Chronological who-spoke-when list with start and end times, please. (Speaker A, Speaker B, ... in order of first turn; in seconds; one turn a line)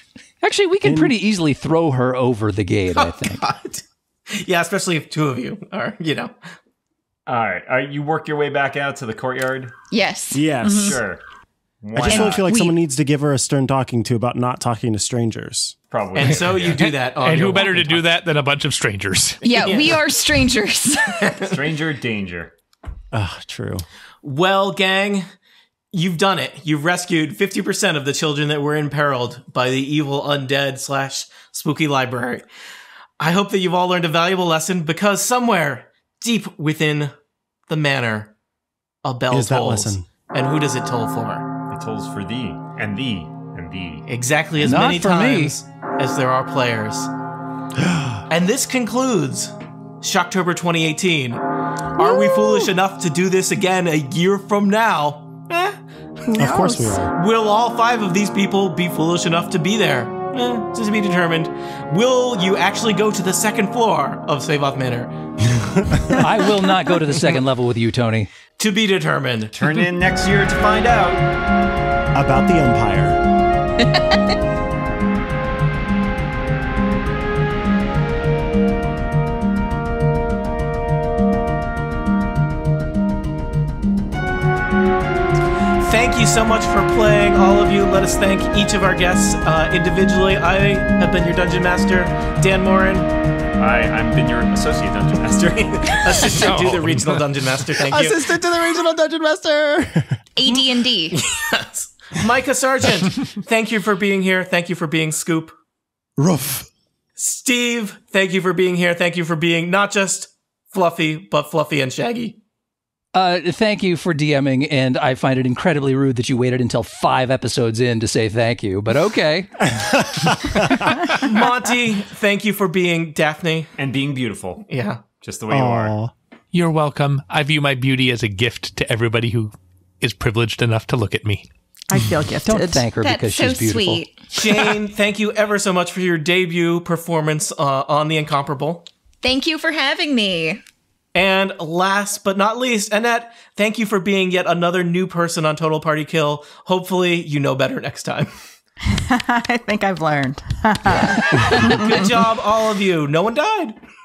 Speaker A: 0.4-3.4
Speaker B: 0.8-1.1
Speaker C: 2.9-6.3
Speaker D: 7.2-9.7
Speaker E: 9.9-10.5
Speaker B: 10.3-11.0
Speaker D: 10.7-11.2
Speaker F: 10.7-11.0
Speaker D: 11.8-12.5
Speaker B: 11.9-15.7
Speaker F: 12.2-12.7
Speaker D: 15.9-16.9
Speaker C: 16.1-18.0
Speaker G: 16.8-19.4
Speaker E: 19.4-21.3
Speaker D: 21.4-22.5
Speaker B: 23.1-23.8
Speaker C: 24.2-25.2
Speaker C: 25.9-32.4
Speaker C: 33.2-37.1
Speaker C: 37.7-38.3
Speaker C: 39.0-41.5
Speaker B: 39.3-40.1
Speaker D: 41.7-44.0
Speaker C: 44.1-47.1
Speaker A: 44.6-45.5
Speaker B: 47.7-48.2
Speaker C: 48.3-51.4
Speaker C: 51.9-55.8
Speaker F: 52.0-52.7
Speaker F: 56.2-57.1
Speaker B: 56.4-57.1
Speaker C: 57.1-65.2
Speaker B: 65.5-66.3
Speaker A: 66.2-68.3
Speaker C: 68.6-69.5
Speaker D: 69.5-71.3
Speaker B: 72.1-73.2
Speaker E: 73.8-74.1
Speaker C: 85.8-93.1
Speaker D: 93.6-96.4
Speaker C: 95.9-98.3
Speaker G: 96.4-97.4
Speaker B: 97.9-100.2
Speaker E: 100.3-101.2
Speaker C: 101.1-105.5
Speaker B: 106.2-106.7
Speaker C: 107.2-112.4
Speaker A: 113.1-119.5
Speaker B: 119.8-120.9
Speaker C: 121.1-123.7
Speaker D: 123.8-124.7
Speaker C: 124.7-125.0
Speaker D: 125.2-126.0
Speaker B: 125.5-126.1
Speaker G: 126.5-131.4
Speaker F: 131.9-132.9
Speaker A: 132.4-134.0
Speaker E: 133.0-134.3
Speaker C: 134.3-138.8
Speaker E: 139.2-140.6
Speaker C: 141.1-148.3
Speaker F: 148.9-152.2
Speaker C: 151.5-153.8